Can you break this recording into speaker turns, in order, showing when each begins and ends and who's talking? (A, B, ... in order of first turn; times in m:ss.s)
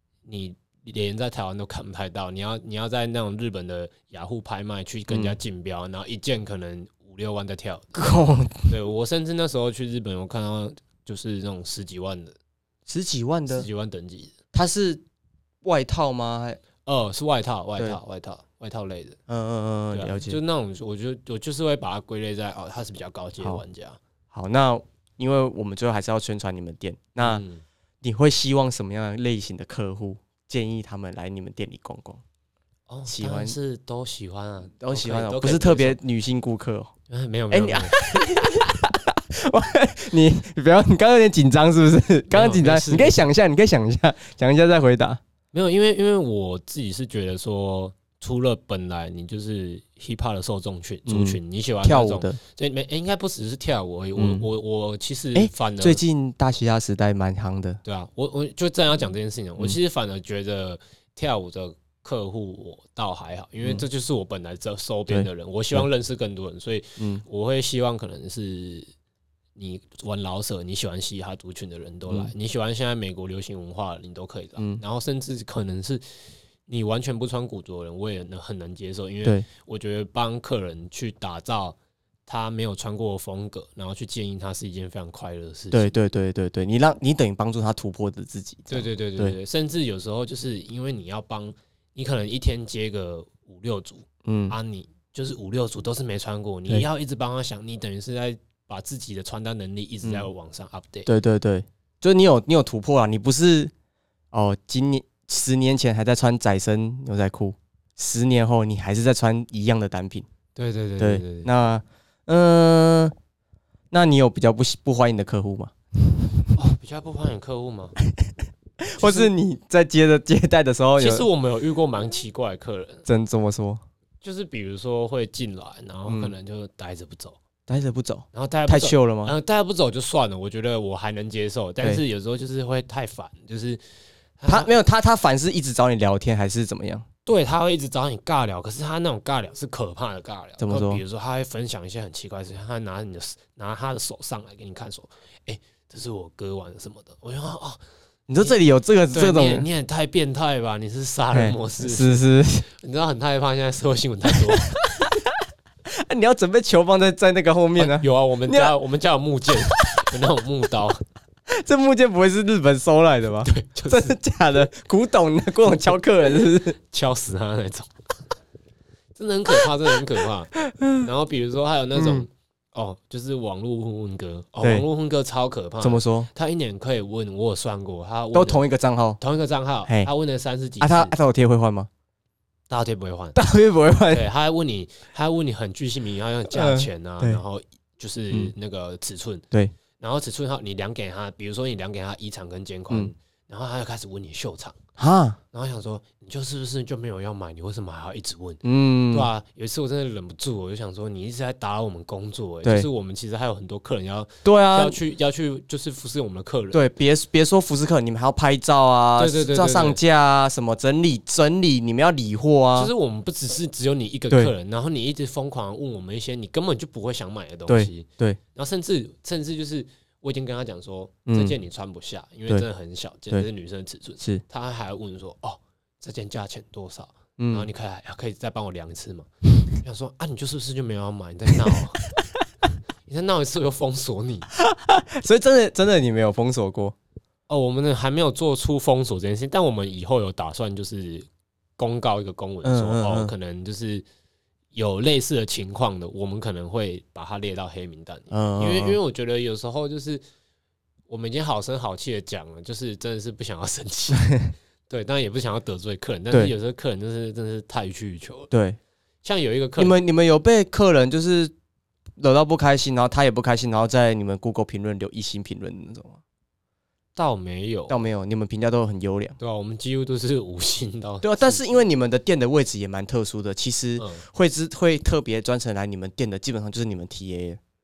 0:00.2-0:08.0 A
0:05.1-0:05.4 B
0:08.0-0:08.7 B
0:08.7-0:12.4 A
0:12.9-0:13.7 B
0:13.5-0:14.3 A
0:14.5-0:15.0 B
0:15.6-0:16.6 B
0:16.9-0:19.2 A
0:19.3-0:20.4 B
0:19.9-0:24.0 A
0:24.3-0:27.4 B
0:27.2-0:27.6 A
0:28.0-0:32.2 B
0:32.9-0:36.0 A
0:33.1-0:33.6 B
0:34.8-0:36.9 B
0:37.1-0:38.3 A
0:37.5-0:45.2 B
0:42.3-0:43.2 A
0:45.5-0:56.0 A
0:51.1-0:52.4 B
0:54.2-0:54.5 B
0:55.4-0:57.8 B
0:57.8-1:08.9 A
1:05.1-1:05.9 B
1:09.6-1:16.0 A
1:16.7-1:25.9 A
1:25.7-1:29.4 B
1:28.7-1:41.1 A
1:34.2-1:34.6 B
1:41.1-1:43.7 B
1:44.3-1:50.3 B
1:50.6-1:51.5 A
1:51.0-1:53.1 B
1:53.9-1:55.7 B
1:56.6-1:58.0 A
1:58.8-2:01.3 B
1:59.0-1:59.3 A
2:01.0-2:03.1 A
2:03.1-2:03.8 B
2:04.2-2:07.4 A
2:06.1-2:06.3 B
2:07.7-2:09.4 B
2:08.3-2:13.8 A
2:14.4-2:14.7 A
2:14.5-2:17.0 B
2:17.3-2:27.8 A
2:20.6-2:21.0 B
2:28.3-2:29.7 B
2:29.1-2:34.7 A
2:31.3-2:32.7 B
2:34.5-2:35.4 B
2:35.9-2:38.7 B
2:37.8-2:41.0 A
2:39.5-2:40.2 B
2:41.5-2:46.8 B
2:43.4-2:44.2 A
2:46.8-2:47.9 A
2:49.2-2:58.7 A
2:50.6-2:51.1 B
2:52.0-2:52.3 B
2:55.8-2:56.3 B
2:58.3-2:59.2 B
2:59.2-3:01.1 A
3:00.8-3:01.9 B
3:02.7-3:03.4 A
3:03.4-3:04.3 B
3:04.1-3:09.4 A
3:06.5-3:07.4 B
3:10.0-3:14.8 A
3:15.0-3:15.4 B
3:15.5-3:26.8 A
3:18.6-3:19.3 B
3:24.4-3:25.0 B
3:26.7-3:32.9 B
3:29.2-3:30.0 A
3:32.8-3:52.0 A
3:37.7-3:38.4 B
3:41.3-3:41.6 B
3:47.4-3:47.7 B
3:51.7-3:52.4 B
3:53.1-3:54.5 A
3:54.5-3:57.0 B
3:57.5-4:01.3 A
4:01.8-4:04.0 A
4:02.6-4:03.3 B
4:04.7-4:10.2 A
4:08.3-4:09.0 B
4:11.1-4:14.3 A
4:14.2-4:14.5 B
4:14.9-4:18.5 A
4:18.5-4:18.8 B
4:19.2-4:20.0 A
4:19.8-4:21.5 B
4:22.2-4:26.2 B
4:27.2-4:28.0 A
4:27.9-4:29.4 B
4:29.4-4:31.8 A
4:31.2-4:37.6 B
4:34.0-4:34.3 A